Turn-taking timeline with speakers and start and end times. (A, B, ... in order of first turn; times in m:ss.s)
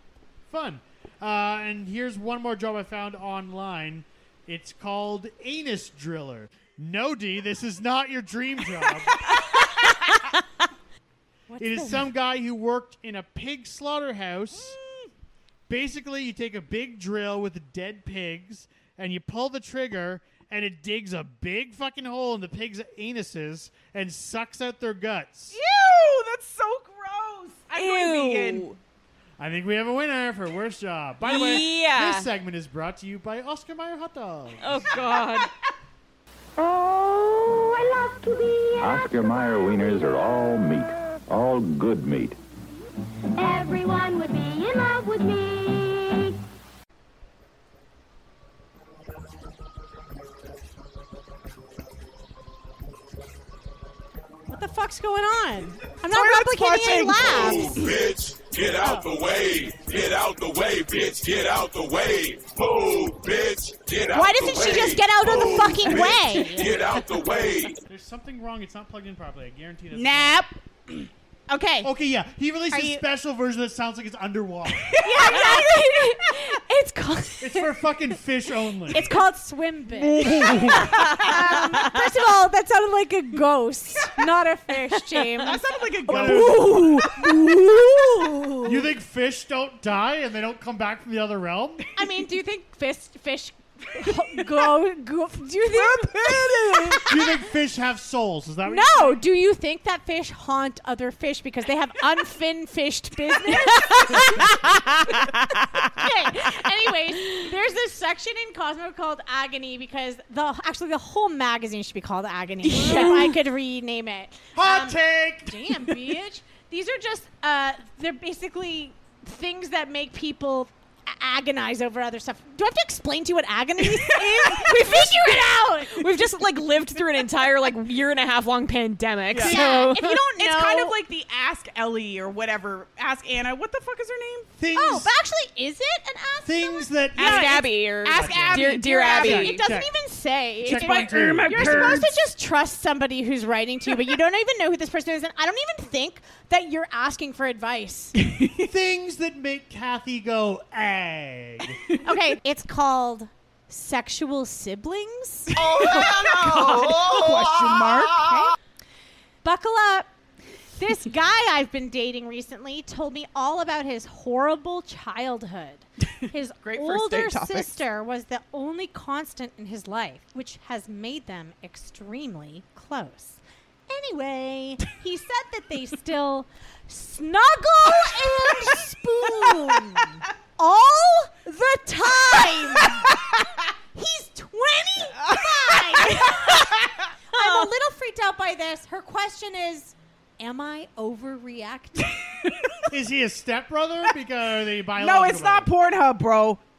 0:00.5-0:09.1 A
0:11.5-0:12.0 B
0:11.6-0:14.8 A
0:15.7-0:25.6 A
0:25.5-0:28.7 C
0:27.8-0:28.8 D
0:29.4-0:34.9 A
0:31.2-0:32.3 D
0:34.6-0:35.5 D
0:36.6-0:40.0 E
0:38.8-0:42.4 F
0:43.4-0:46.4 E
0:54.5-0:57.9 B
0:56.1-0:57.8 C
0:57.2-1:07.8 G
0:58.8-0:59.1 B
1:04.1-1:07.0 B
1:07.9-1:10.4 A
1:09.9-1:11.1 C
1:11.5-1:11.9 B
1:11.8-1:15.0 A
1:12.7-1:13.0 B
1:14.9-1:15.6 C
1:15.0-1:17.8 B
1:17.4-1:19.1 A
1:18.9-1:25.6 B
1:20.0-1:21.6 C
1:20.1-1:21.2 A
1:25.4-1:27.0 C
1:26.1-1:26.9 A
1:26.1-1:27.5 D
1:26.1-1:28.8 B
1:28.6-1:31.8 A
1:31.9-1:37.3 B
1:34.1-1:34.6 C
1:35.7-1:37.1 C
1:37.1-1:39.2 A
1:38.6-1:44.9 B
1:46.0-2:06.2 B
1:52.6-1:53.4 D
1:54.5-1:55.9 A
2:04.1-2:04.6 C
2:04.5-2:10.2 D
2:09.3-2:14.5 C
2:09.4-2:09.8 A
2:09.4-2:11.0 B
2:14.6-2:15.1 A
2:14.7-2:17.7 B
2:16.4-2:19.9 A
2:17.2-2:19.6 C
2:17.2-2:19.6 D
2:18.9-2:28.1 B
2:20.6-2:22.1 A
2:20.6-2:22.1 C
2:28.2-2:28.7 C
2:28.6-2:31.8 A
2:32.0-2:35.6 B
2:35.5-2:38.2 C
2:35.7-2:37.0 D
2:38.1-2:38.6 B
2:39.4-2:40.1 B
2:40.8-3:03.3 B
2:46.6-2:47.8 C
3:03.9-3:06.7 B
3:05.2-3:06.9 C
3:07.3-3:07.7 D
3:07.3-3:12.2 B
3:12.9-3:15.7 A
3:15.0-3:16.6 C